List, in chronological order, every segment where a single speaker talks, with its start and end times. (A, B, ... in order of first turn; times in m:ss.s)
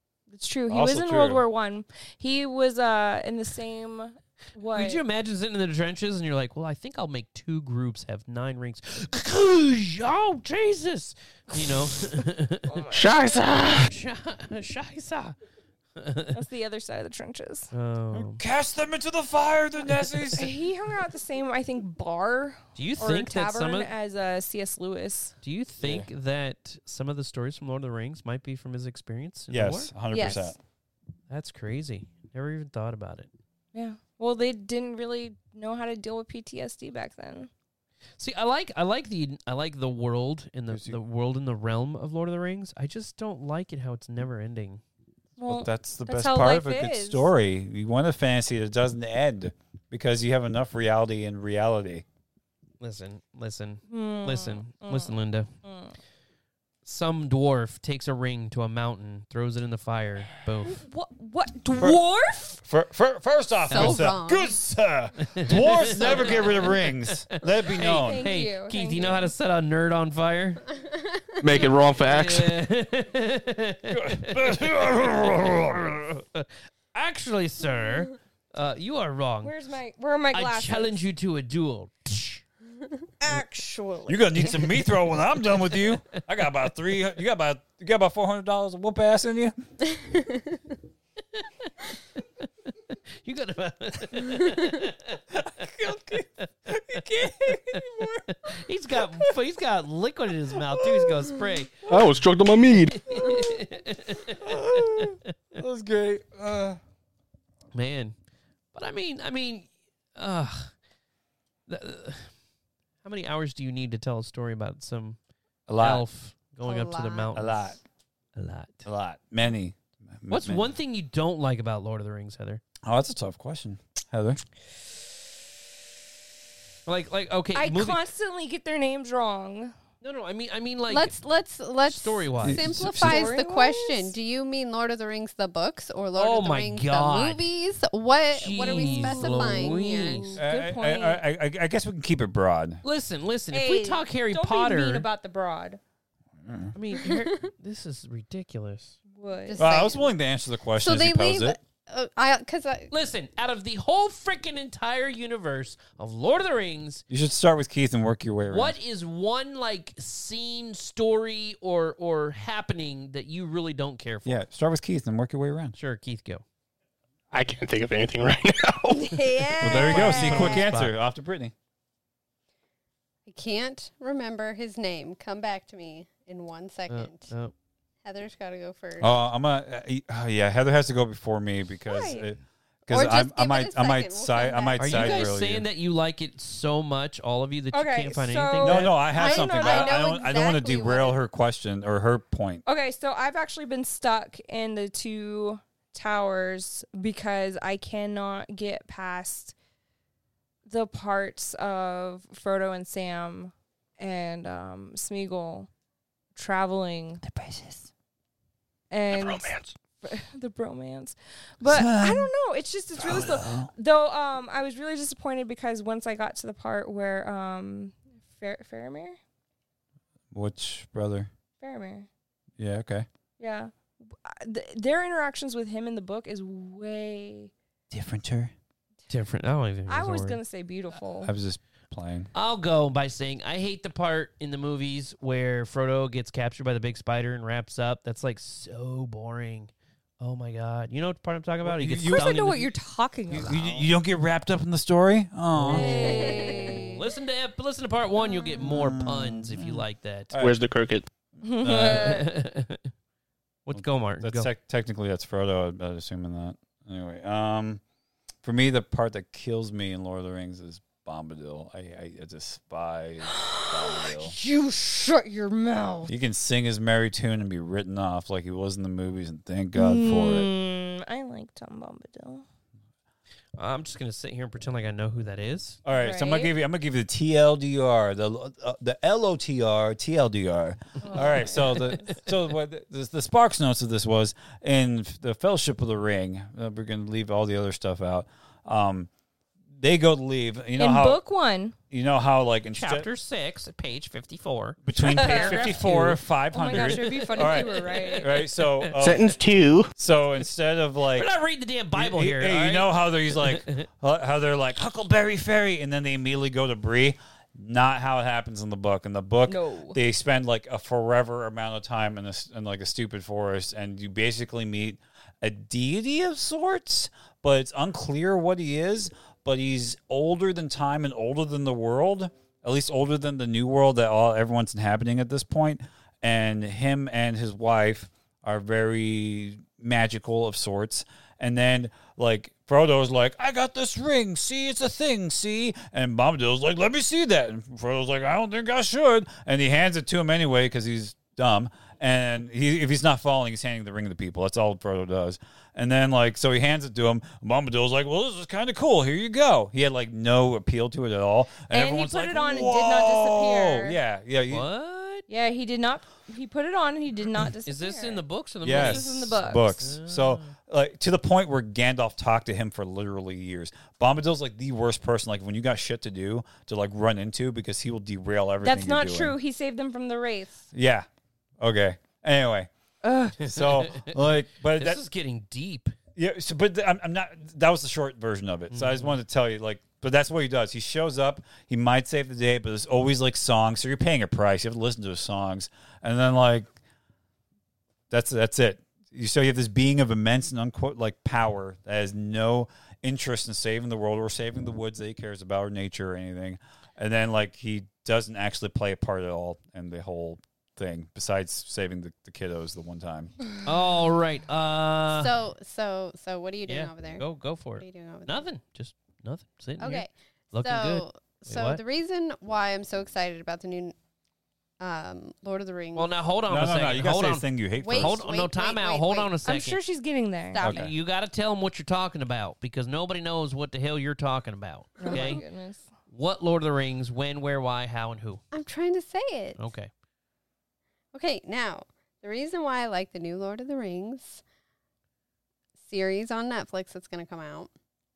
0:00.3-0:05.0 A
0:00.7-0:01.4 B
0:04.7-0:12.8 C
0:11.5-0:13.1 A
0:12.9-0:13.9 D
0:13.7-0:15.4 C
0:16.0-0:16.4 C
0:16.3-0:17.7 A
0:17.7-0:18.4 C
0:18.1-0:20.5 B
0:20.4-0:25.4 A
0:22.8-0:23.9 C
0:25.4-0:29.9 C
0:25.8-0:26.1 B
0:29.5-0:30.6 B
0:30.1-0:30.6 A
0:31.3-0:33.3 C
0:33.7-0:37.5 A
0:38.2-0:44.8 C
0:40.7-0:41.0 B
0:45.4-0:47.3 A
0:45.4-0:52.0 B
0:52.8-0:55.5 C
0:53.9-0:56.0 A
0:56.8-1:00.8 C
1:00.7-1:02.6 A
1:01.8-1:02.0 B
1:02.6-1:08.3 B
1:03.7-1:04.5 E
1:03.7-1:04.1 C
1:05.3-1:10.6 C
1:06.0-1:06.7 A
1:07.8-1:09.3 A
1:11.4-1:12.6 D
1:11.6-1:19.5 C
1:13.9-1:16.0 B
1:19.4-1:21.0 A
1:20.3-1:22.4 C
1:23.2-1:24.6 A
1:24.1-1:29.5 B
1:30.0-1:30.3 E
1:31.4-1:31.7 C
1:32.7-1:35.4 C
1:35.3-1:39.4 B
1:37.4-1:41.8 C
1:40.5-1:41.5 B
1:41.9-1:43.1 D
1:43.0-1:45.2 C
1:43.2-1:43.6 B
1:44.2-1:46.8 B
1:47.7-1:48.2 C
1:48.7-1:50.7 C
1:51.7-1:52.3 C
1:53.0-1:55.2 C
1:55.7-1:56.1 B
1:55.8-1:57.8 C
1:56.6-1:57.4 E
1:57.3-1:57.8 B
1:58.4-1:58.8 C
1:58.8-2:00.7 B
2:00.3-2:02.6 C
2:02.8-2:04.4 B
2:06.9-2:08.0 C
2:07.6-2:09.8 A
2:10.0-2:11.2 C
2:10.9-2:20.4 E
2:11.8-2:12.8 C
2:12.4-2:13.3 B
2:12.9-2:14.2 A
2:16.1-2:17.4 C
2:18.3-2:20.4 C
2:18.5-2:21.2 A
2:20.4-2:22.8 B
2:22.8-2:25.1 C
2:23.5-2:25.8 A
2:26.4-2:26.8 B
2:26.7-2:29.0 C
2:27.0-2:27.5 E
2:29.1-2:29.6 A
2:29.5-2:30.1 E
2:29.6-2:31.6 B
2:30.8-2:32.9 E
2:32.9-2:37.0 C
2:37.1-2:38.8 B
2:38.5-2:44.4 C
2:44.2-2:45.8 B
2:45.8-2:46.4 C
2:47.3-2:49.2 D
2:48.9-2:50.6 A
2:49.5-2:49.8 E
2:49.6-2:51.5 B
2:49.6-2:50.9 C
2:53.3-2:57.3 E
2:56.9-2:57.5 C
2:58.0-2:59.2 E
2:59.0-3:05.7 B
3:01.9-3:02.3 A
3:02.9-3:05.3 E
3:04.8-3:09.0 C
3:07.7-3:10.6 A
3:08.6-3:12.6 B
3:09.1-3:11.2 E
3:12.7-3:19.6 A
3:20.6-3:25.7 A
3:26.4-3:27.2 A
3:27.2-3:27.9 B
3:28.9-3:39.2 A
3:29.1-3:29.7 D
3:31.6-3:32.3 B
3:33.0-3:33.7 B
3:40.3-3:41.3 B
3:41.6-3:42.1 A
3:42.6-3:43.1 B
3:43.4-3:47.5 A
3:47.9-3:48.5 B
3:49.1-3:50.4 C
3:49.9-3:51.3 A
3:51.2-3:52.3 B
3:52.3-4:02.7 C
4:01.6-4:02.4 B
4:02.1-4:03.9 A
4:03.3-4:06.6 B
4:05.6-4:10.4 C
4:05.6-4:07.0 A
4:05.7-4:06.8 E
4:08.6-4:10.6 B
4:10.4-4:11.1 D
4:11.4-4:12.3 A
4:11.6-4:12.2 B
4:11.6-4:12.9 C
4:13.7-4:14.5 C
4:13.7-4:17.8 B
4:18.4-4:24.4 B
4:23.3-4:26.1 A
4:26.1-4:30.5 B
4:29.8-4:32.4 A
4:33.6-4:35.8 C
4:35.8-4:49.1 B
4:36.0-4:36.5 A
4:41.0-4:41.8 A
4:49.8-4:51.2 B
4:50.8-4:51.8 A
4:51.9-4:53.1 B
4:52.7-4:59.0 C
4:54.8-4:59.3 B
4:55.0-4:55.8 A
4:56.5-4:58.4 A
4:59.0-4:59.9 D
5:00.0-5:01.3 B
5:01.1-5:03.9 C
5:01.9-5:54.7 B
5:09.5-5:10.0 A
5:51.7-5:54.0 A
5:54.5-5:55.3 C
5:55.3-5:59.9 A
5:57.7-6:00.5 C
5:58.6-6:09.4 B
6:08.6-6:10.7 A
6:10.7-6:11.1 B
6:11.6-6:12.7 B
6:13.3-6:14.2 C
6:13.4-6:15.0 B
6:14.7-6:16.0 C
6:16.2-6:26.7 B
6:18.7-6:19.2 C
6:28.1-6:43.3 B
6:43.6-6:45.4 C
6:45.1-6:47.3 E
6:46.7-6:51.8 C
6:47.8-6:48.5 E
6:49.8-6:54.0 E
6:54.8-6:56.1 E
6:55.9-6:59.8 C
6:56.5-6:58.2 B
6:57.8-6:59.3 E
6:59.4-7:00.6 A
7:00.5-7:00.9 E
7:00.6-7:00.9 B
7:00.6-7:05.4 C
7:05.0-7:05.9 A
7:05.0-7:05.4 E
7:06.1-7:08.4 C
7:08.5-7:09.6 E
7:09.6-7:09.9 C
7:11.1-7:14.4 E
7:15.8-7:17.7 E